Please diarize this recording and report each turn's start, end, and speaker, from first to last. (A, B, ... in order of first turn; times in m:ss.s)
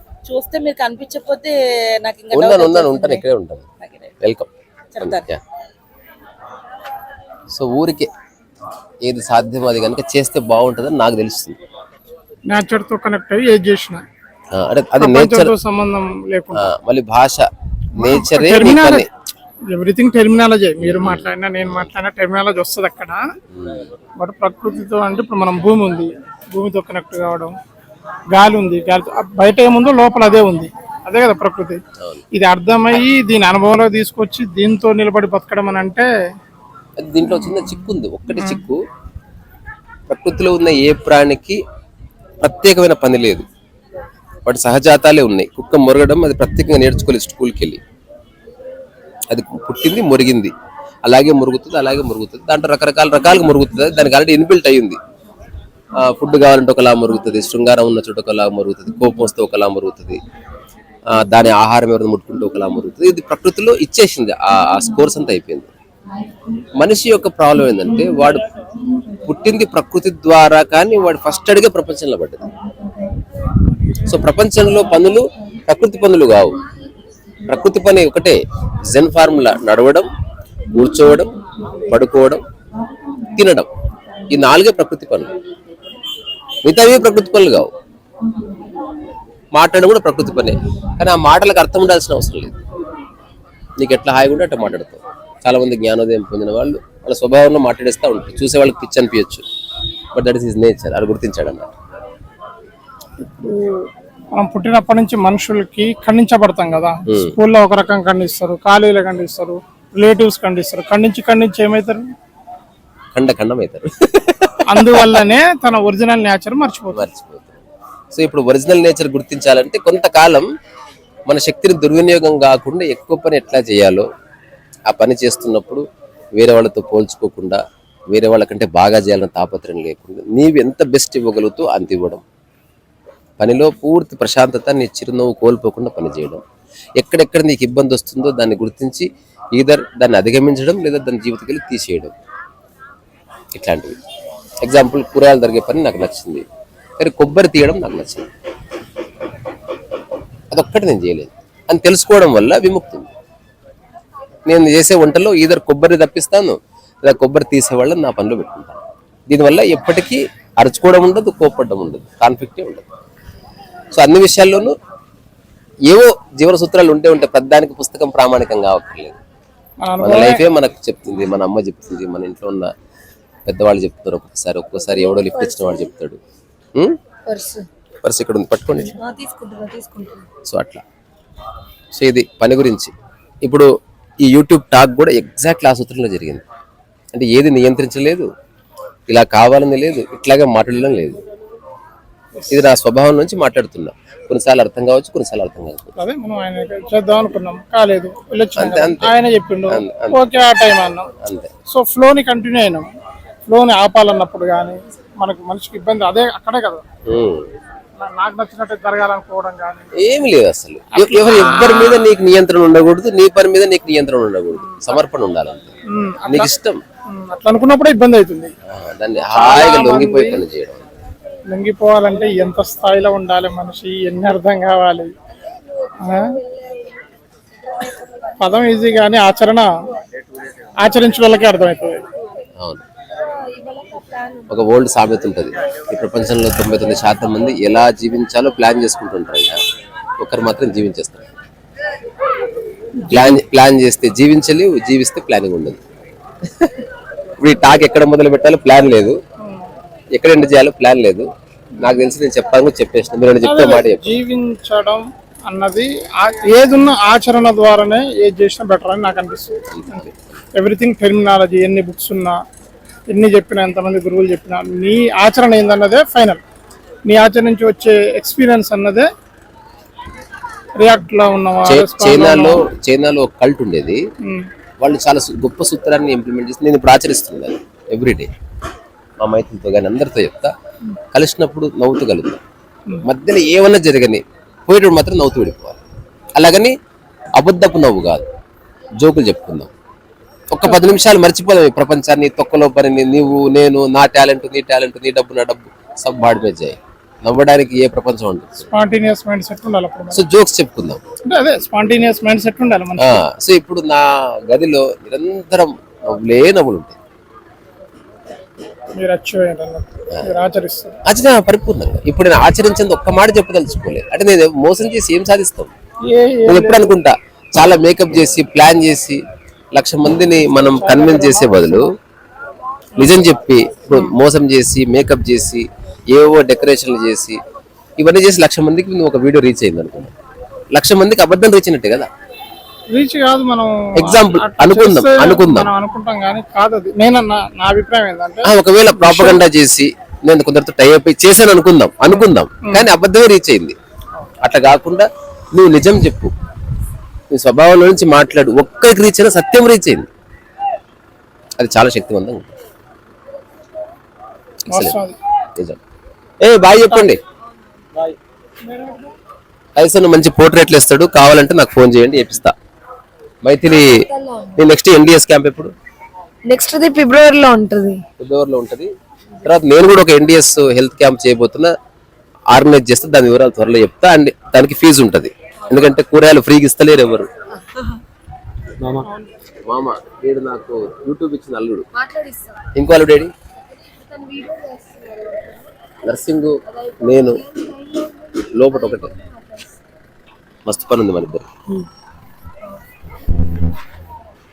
0:00.2-0:03.2 A
0:02.3-0:03.7 B
0:03.8-0:04.1 A
0:04.2-0:04.5 B
0:05.0-0:05.2 A
0:05.0-0:05.4 B
0:07.5-0:08.1 B
0:09.0-0:11.6 B
0:12.5-0:14.0 C
0:14.5-0:15.5 B
0:15.0-0:16.6 C
0:16.6-0:19.1 B
0:18.0-0:19.1 C
0:19.8-0:23.2 C
0:20.8-0:21.9 B
0:23.5-0:23.9 B
0:24.2-0:27.5 C
0:28.3-0:31.8 C
0:32.4-0:36.1 C
0:37.0-0:38.8 B
0:40.1-0:41.6 B
0:42.4-0:43.4 B
0:44.5-0:47.8 B
0:49.3-0:50.5 B
0:51.1-0:55.0 B
0:56.0-1:00.2 B
1:01.1-1:05.7 B
1:06.8-1:08.5 B
1:09.2-1:12.5 B
1:14.0-1:16.6 B
1:17.4-1:20.1 B
1:20.7-1:22.4 B
1:23.3-1:23.7 B
1:24.3-1:25.3 B
1:26.6-1:27.7 B
1:29.5-1:32.6 B
1:33.8-1:39.4 B
1:40.1-1:41.7 B
1:43.2-1:43.9 C
1:44.4-1:52.1 C
1:47.1-1:47.4 B
1:53.2-1:55.2 B
1:54.7-1:57.0 C
1:56.9-2:00.5 B
2:01.3-2:04.1 B
2:04.9-2:05.8 B
2:06.4-2:12.2 B
2:13.4-2:16.4 B
2:17.0-2:22.1 B
2:23.5-2:24.0 B
2:24.6-2:26.4 B
2:27.0-2:28.3 B
2:30.5-2:33.1 B
2:34.5-2:42.8 B
2:43.9-2:44.8 B
2:45.9-2:49.2 B
2:49.8-2:50.4 C
2:50.0-2:52.7 B
2:53.5-2:56.2 B
2:55.0-2:55.9 D
2:57.3-2:57.7 D
2:58.0-2:59.0 B
2:58.8-3:00.3 D
3:00.5-3:00.8 B
3:02.0-3:02.9 B
3:04.2-3:06.4 B
3:07.1-3:08.3 B
3:09.1-3:11.2 B
3:12.5-3:16.0 B
3:16.0-3:21.1 C
3:18.6-3:19.1 B
3:19.7-3:20.2 B
3:21.2-3:21.5 B
3:21.7-3:22.9 C
3:23.5-3:26.8 C
3:27.1-3:27.5 B
3:28.0-3:29.9 C
3:30.0-3:35.7 B
3:31.0-3:31.9 C
3:36.0-3:36.5 C
3:36.3-3:36.8 B
3:37.2-3:38.5 C
3:38.7-3:40.8 B
3:39.4-3:40.4 C
3:41.5-3:45.1 C
3:45.5-3:46.9 D
3:46.1-3:46.4 C
3:48.4-3:49.7 C
3:50.8-3:52.0 C
3:53.2-3:54.5 D
3:54.5-3:59.6 B
4:00.2-4:01.3 B
4:03.0-4:05.8 B
4:07.4-4:09.2 B
4:10.1-4:11.3 B
4:11.8-4:14.2 B
4:13.4-4:19.6 C
4:19.7-4:20.2 B
4:20.6-4:22.4 C
4:23.1-4:26.4 C
4:27.1-4:29.1 C
4:30.8-4:32.6 C
4:31.7-4:34.0 B
4:34.8-4:38.3 B
4:39.2-4:40.5 B
4:41.1-4:42.4 B
4:43.0-4:45.8 B
4:46.4-4:46.7 B
4:47.4-4:48.2 B
4:49.0-4:49.7 B
4:50.5-4:58.7 B
4:58.7-5:00.2 C
5:00.1-5:01.0 B
5:01.3-5:03.2 C
5:03.0-5:07.0 B
5:09.0-5:11.0 C
5:11.1-5:15.7 B
5:16.1-5:16.9 C
5:16.5-5:19.2 B
5:19.7-5:21.9 B
5:20.7-5:21.7 C
5:23.0-5:27.4 B
5:28.0-5:30.1 B
5:30.8-5:32.1 B
5:33.0-5:39.4 C
5:34.0-5:35.7 B
5:38.4-5:43.8 B
5:44.4-5:46.3 B
5:47.3-5:50.1 B
5:51.6-5:52.5 B
5:54.8-5:55.2 C
5:56.4-5:57.2 B
5:58.7-5:59.1 C
5:59.8-6:02.5 B
6:03.4-6:04.0 B
6:03.7-6:04.6 D
6:04.6-6:05.7 B
6:06.5-6:08.0 D
6:08.2-6:08.9 B
6:09.4-6:11.7 B
6:12.5-6:17.3 B
6:17.6-6:18.0 D
6:19.7-6:21.9 B
6:21.9-6:22.7 D
6:22.8-6:23.3 B
6:23.6-6:25.7 D
6:26.0-6:27.4 B
6:26.6-6:29.8 D
6:28.5-6:29.1 B
6:30.7-6:31.5 B